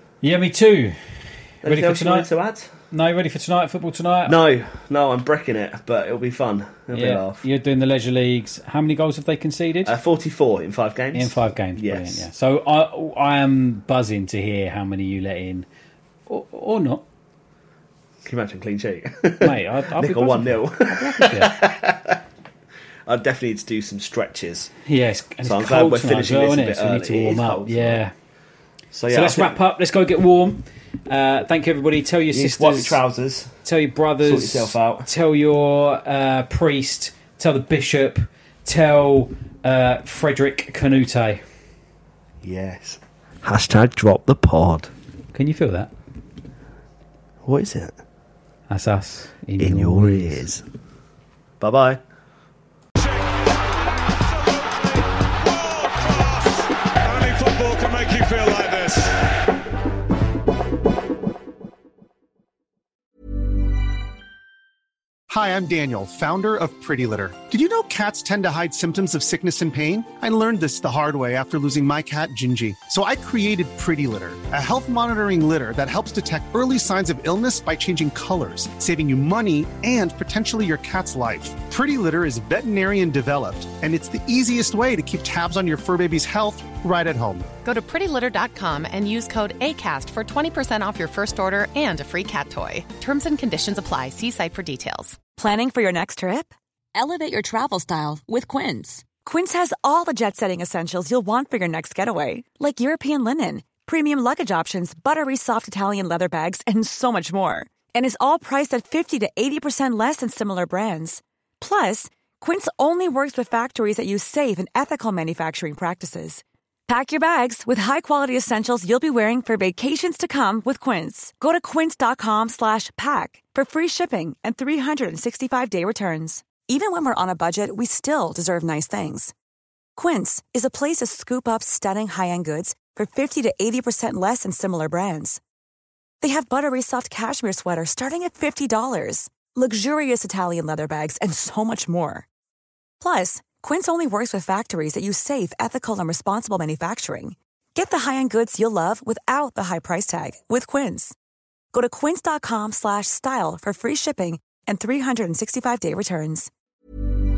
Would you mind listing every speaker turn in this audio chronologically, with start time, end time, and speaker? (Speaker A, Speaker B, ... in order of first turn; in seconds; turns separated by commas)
Speaker A: 0.2-2.3, Speaker B: 1.6-2.7, Speaker A: 2.9-4.3, Speaker B: 4.2-7.4, Speaker A: 6.9-9.9, Speaker B: 9.8-12.3, Speaker A: 11.1-15.7, Speaker A: 16.3-17.0, Speaker B: 18.2-22.2, Speaker A: 19.4-21.6, Speaker B: 23.1-24.7, Speaker A: 24.9-28.1, Speaker B: 25.4-28.0, Speaker B: 28.9-29.6, Speaker A: 29.1-33.0, Speaker B: 32.3-33.5, Speaker A: 33.6-41.4, Speaker B: 34.2-35.1, Speaker B: 42.4-44.9, Speaker A: 45.3-45.9, Speaker B: 47.4-48.0, Speaker A: 48.7-50.4, Speaker B: 49.6-50.6, Speaker B: 51.6-52.0, Speaker C: 53.0-59.3, Speaker D: 65.3-87.5, Speaker E: 87.6-95.2, Speaker F: 95.3-129.3, Speaker F: 129.9-135.4, Speaker F: 136.2-142.2, Speaker F: 143.0-151.1, Speaker F: 151.7-156.5